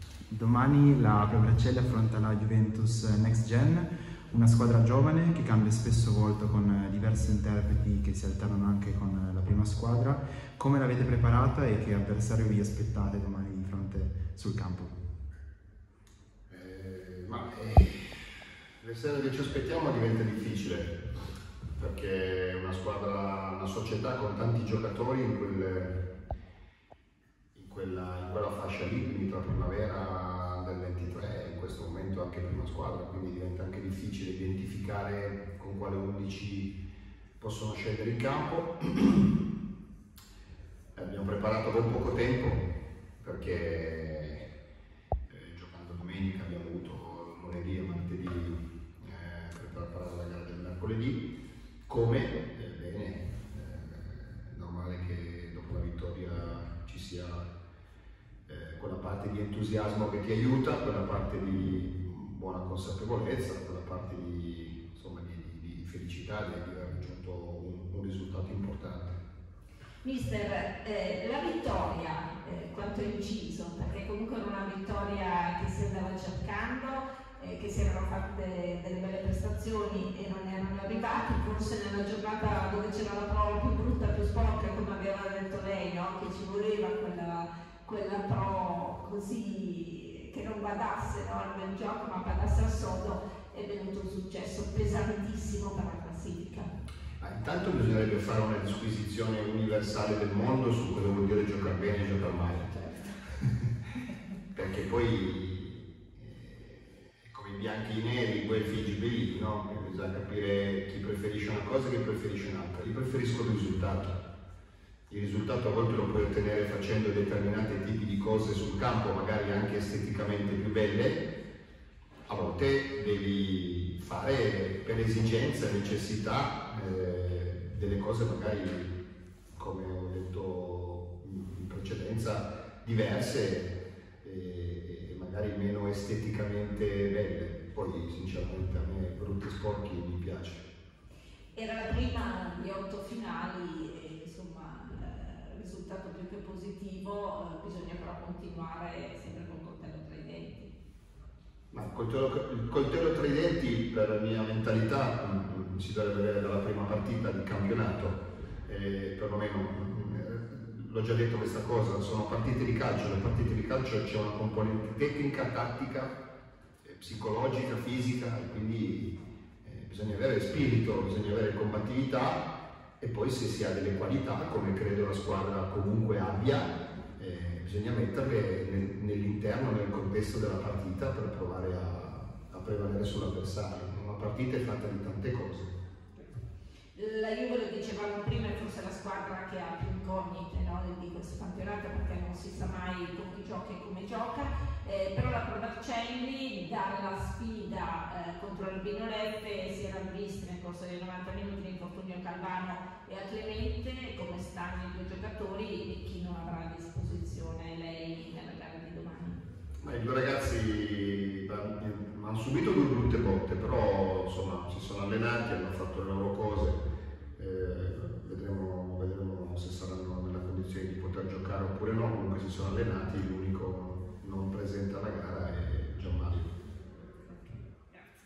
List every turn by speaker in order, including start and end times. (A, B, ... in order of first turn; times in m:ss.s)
0:00.3-0:15.0 A
0:16.5-0:21.0 B
0:21.8-0:26.0 B
0:27.6-0:36.7 B
0:37.4-0:39.4 B
0:41.0-0:42.7 B
0:43.2-0:44.4 B
0:45.3-0:51.2 B
0:51.9-0:57.5 B
0:58.5-1:09.2 B
1:10.0-1:36.7 C
1:37.2-1:42.7 B
1:42.7-1:43.2 C
1:44.5-1:54.2 B
1:55.1-2:01.3 B
2:02.3-2:09.0 B
2:09.6-2:20.6 B
2:21.6-2:30.7 C
2:31.7-2:46.2 B
2:46.8-2:52.5 B
2:53.0-3:05.7 B
3:07.0-3:29.4 C
3:29.8-3:36.8 B
3:37.4-3:46.5 B